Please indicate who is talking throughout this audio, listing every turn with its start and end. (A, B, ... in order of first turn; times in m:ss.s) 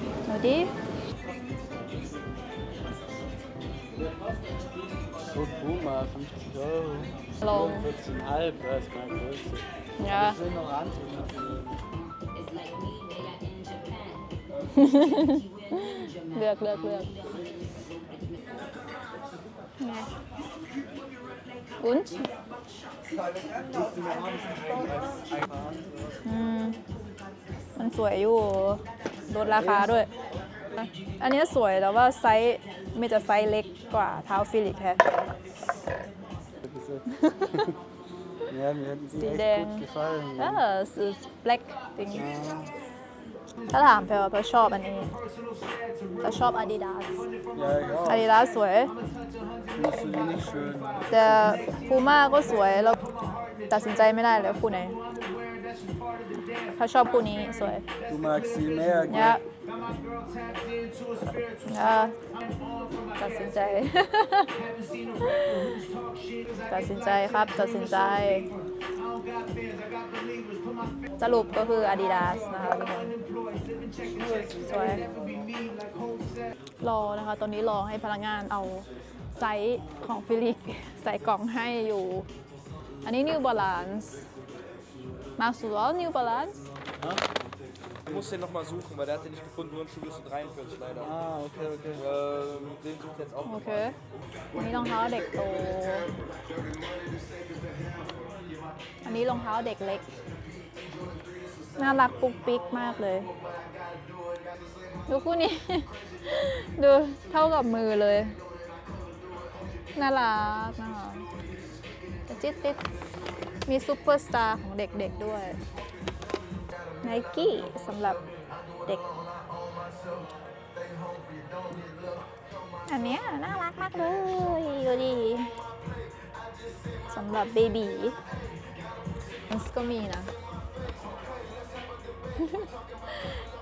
0:00.3-0:00.7 A
0:01.3-0:02.4 B
0:05.2-0:11.8 B
0:07.4-0:07.9 A
0:10.0-0:10.4 A
0:14.8-0:17.2 A
0:19.8-0:20.1 A
0:21.8-0:22.3 A
0:23.5-0:26.2 B
0:26.2-0:26.8 A
0:27.8-0:30.1 A
0:29.4-0:30.1 B
0:30.8-0:35.0 A
0:36.6-0:37.8 B
0:38.5-0:40.6 B
0:39.1-0:42.3 A
0:42.1-0:42.8 B
0:43.7-0:45.2 A
0:46.2-0:47.3 A
0:47.5-0:48.4 B
0:48.0-0:48.9 A
0:49.8-0:51.7 B
0:51.1-0:53.0 A
0:53.7-0:55.0 A
0:56.7-0:57.8 A
0:58.1-0:59.4 B
0:59.1-0:59.4 A
1:01.6-1:02.2 A
1:03.2-1:04.5 A
1:05.2-1:05.7 A
1:06.7-1:08.5 A
1:11.2-1:13.2 A
1:13.9-1:15.6 B
1:14.6-1:15.0 A
1:16.8-1:22.3 A
1:23.0-1:24.3 A
1:25.4-1:26.6 A
1:27.0-1:27.2 B
1:28.1-1:31.1 C
1:31.0-1:32.0 B
1:32.0-1:33.9 C
1:33.5-1:34.0 A
1:34.5-1:36.1 A
1:39.0-1:40.1 A
1:41.8-1:43.3 A
1:45.1-1:48.3 A
1:50.0-1:51.3 A
1:52.3-1:52.8 A
1:53.7-1:55.6 A
1:57.0-1:58.2 A
2:02.9-2:05.5 A
2:07.1-2:08.2 A
2:09.5-2:10.3 A
2:12.4-2:13.3 A